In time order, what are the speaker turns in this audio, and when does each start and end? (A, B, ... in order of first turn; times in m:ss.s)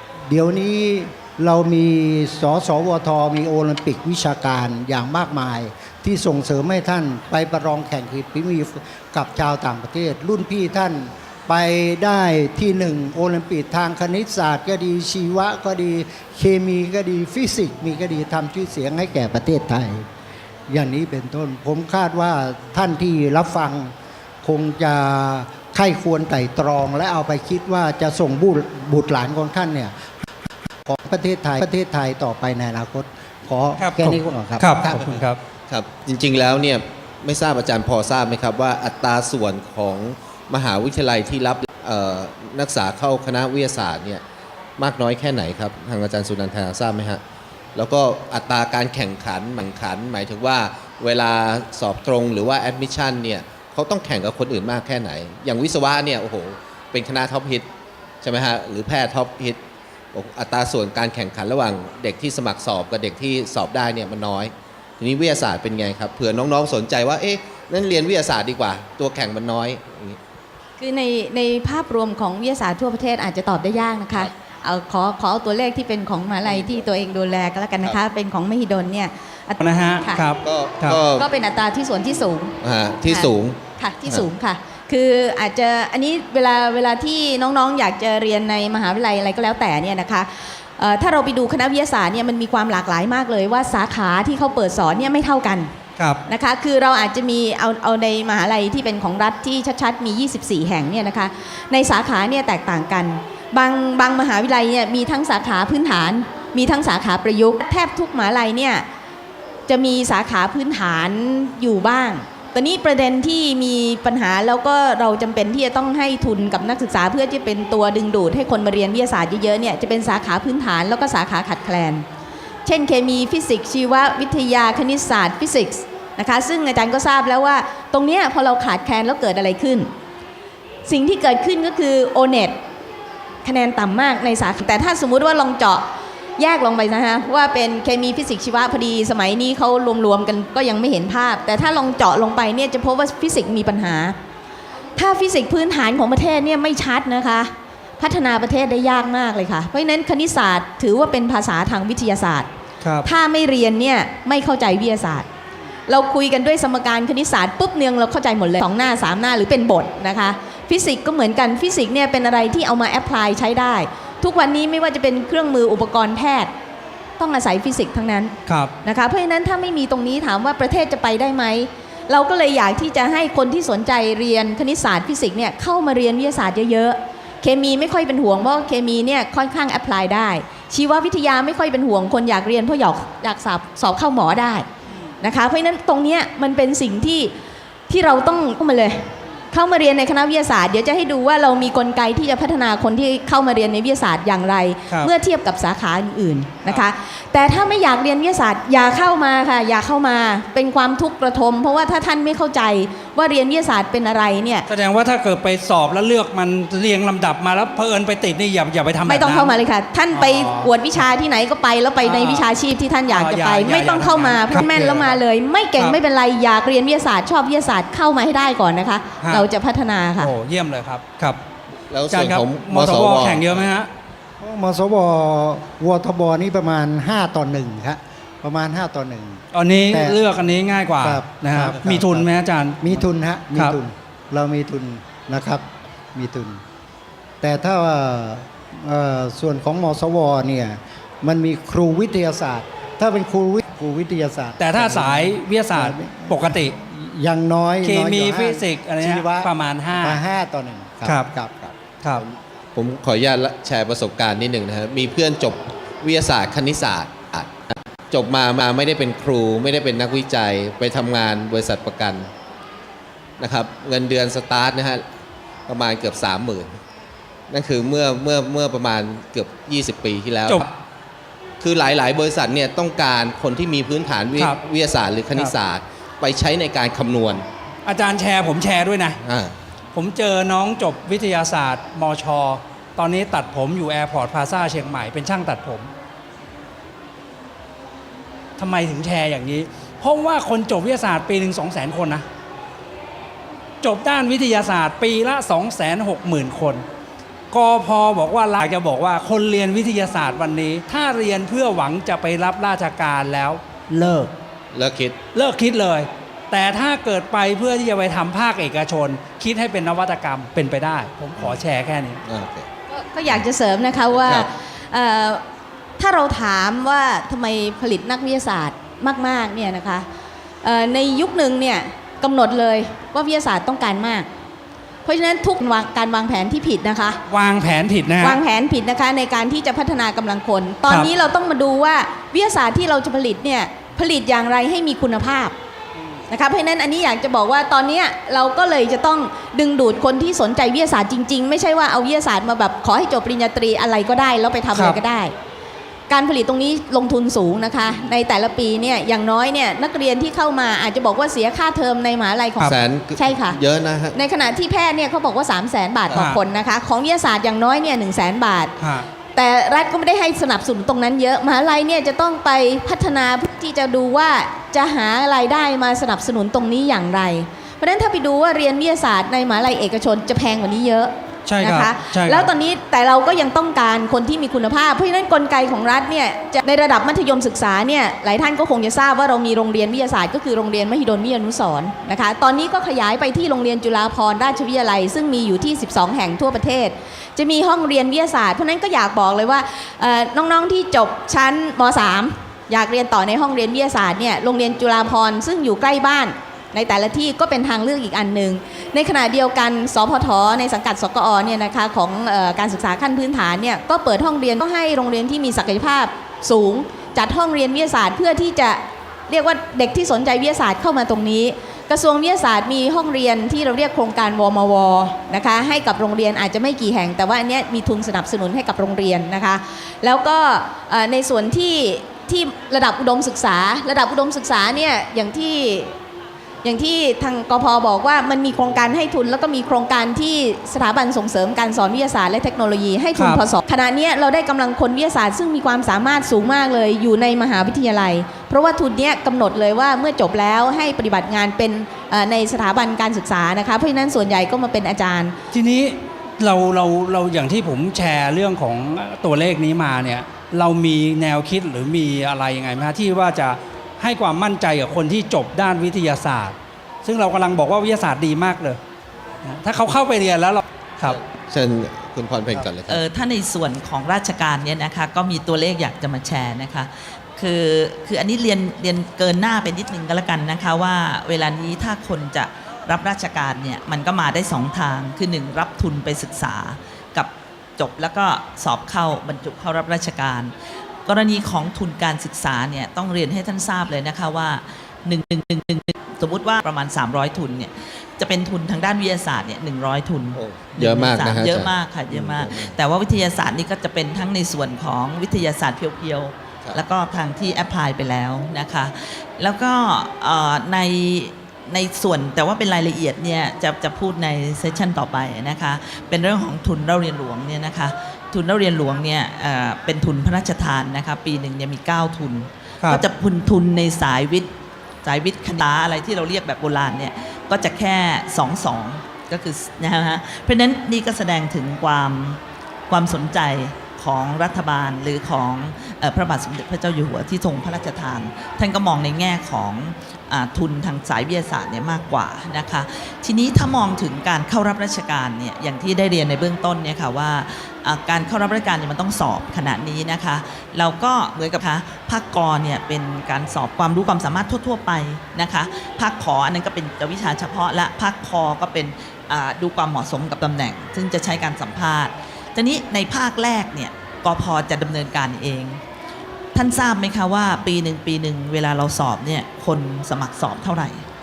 0:00.3-0:20.1 A
0:20.7-0:23.9 A
0:24.4-0:29.9 A
0:30.9-0:35.1 A
0:33.8-0:35.4 B
0:35.7-0:44.2 C
0:44.8-0:47.2 C
0:47.8-0:57.7 C
0:58.2-0:59.6 C
1:00.1-1:10.2 C
1:10.8-1:20.3 D
1:16.4-1:16.9 C
1:19.6-1:21.0 B
1:20.4-1:21.3 C
1:21.1-1:35.7 D
1:22.6-1:24.3 C
1:36.3-1:48.8 D
1:49.7-2:02.0 D
2:02.6-2:09.9 D
2:10.8-2:12.6 D
2:13.4-2:15.8 D
2:16.4-2:24.2 D
2:25.0-2:32.5 D
2:32.8-2:33.1 B
2:33.0-2:35.3 D
2:35.9-2:46.5 D
2:47.2-3:04.7 D
2:48.5-2:48.7 B
3:05.2-3:07.3 D
3:07.9-3:24.7 D
3:24.7-3:29.6 B
3:29.0-3:40.4 D
3:30.1-3:30.7 B
3:32.0-3:32.5 B
3:33.1-3:35.2 B
3:40.2-3:41.4 B
3:41.9-3:43.6 C
3:42.1-3:43.9 B
3:44.4-3:50.2 A
3:49.5-3:53.0 B
3:51.0-3:52.3 A
3:52.8-3:56.6 A
3:57.4-4:11.8 A
4:04.6-4:06.7 B
4:07.8-4:10.2 B
4:12.3-4:22.3 C
4:23.4-4:25.0 C
4:25.7-4:26.8 C
4:27.5-4:30.7 C
4:31.6-4:37.4 C
4:37.9-4:39.2 B
4:39.2-4:39.6 C
4:40.0-4:45.9 B
4:48.6-4:52.2 B
4:53.8-4:56.8 B
4:57.5-5:04.3 B
5:04.7-5:05.2 C
5:05.3-5:12.2 B
5:12.2-5:12.7 C
5:12.9-5:15.4 D
5:14.2-5:14.5 C
5:16.0-5:20.1 D
5:20.6-5:24.3 D
5:25.0-5:27.2 D
5:27.3-5:28.4 B
5:28.2-5:35.6 D
5:36.3-5:45.3 D
5:44.7-5:45.0 B
5:46.1-5:53.6 D
5:52.6-5:54.2 C
5:54.1-5:58.8 D
5:56.1-5:56.4 B
5:58.8-5:59.1 B
5:59.3-7:06.0 D
6:11.5-6:12.5 B
7:06.6-7:25.4 D
7:13.2-7:13.4 B
7:25.5-7:38.8 B
7:39.4-7:41.2 B
7:41.0-7:43.0 C
7:42.9-8:00.5 E
8:01.0-8:34.5 E
8:10.3-8:12.8 C
8:35.0-9:15.8 E
9:16.5-9:21.0 E